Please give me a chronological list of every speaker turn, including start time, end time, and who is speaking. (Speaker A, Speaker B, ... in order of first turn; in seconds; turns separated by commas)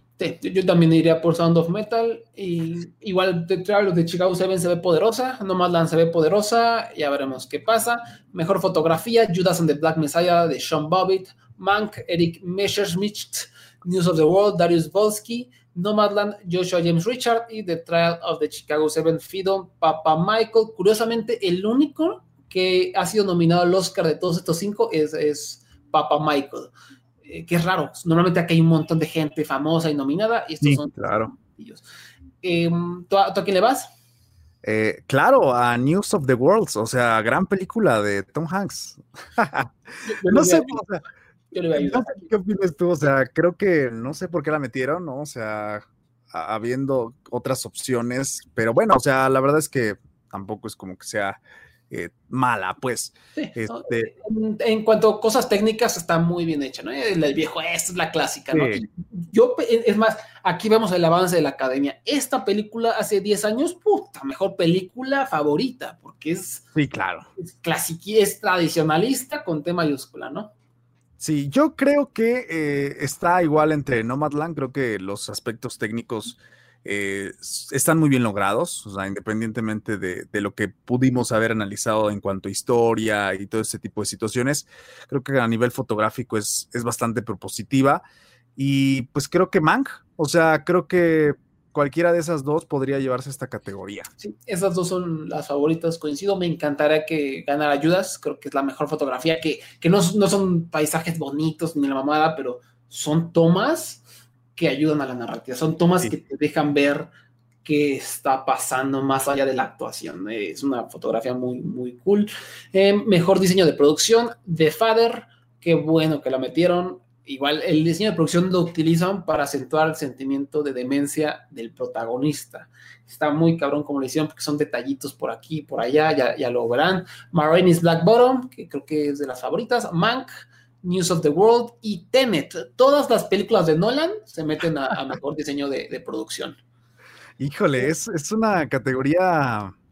Speaker A: 0.2-26.7, Speaker A: 27.2-31.8, Speaker B: 30.6-31.3, Speaker A: 32.4-33.9, Speaker B: 34.6-39.7, Speaker A: 40.0-40.8, Speaker B: 40.3-41.0, Speaker A: 41.5-42.3, Speaker B: 41.7-51.4, Speaker B: 51.9-54.1, Speaker A: 53.4-66.6, Speaker B: 58.5-58.8, Speaker B: 66.7-67.2, Speaker A: 67.4-70.5, Speaker B: 71.2-88.0, Speaker B: 88.6-94.1, Speaker A: 94.2-104.0, Speaker A: 104.5-107.1, Speaker A: 107.6-130.3, Speaker A: 130.8-136.6, Speaker B: 137.4-139.7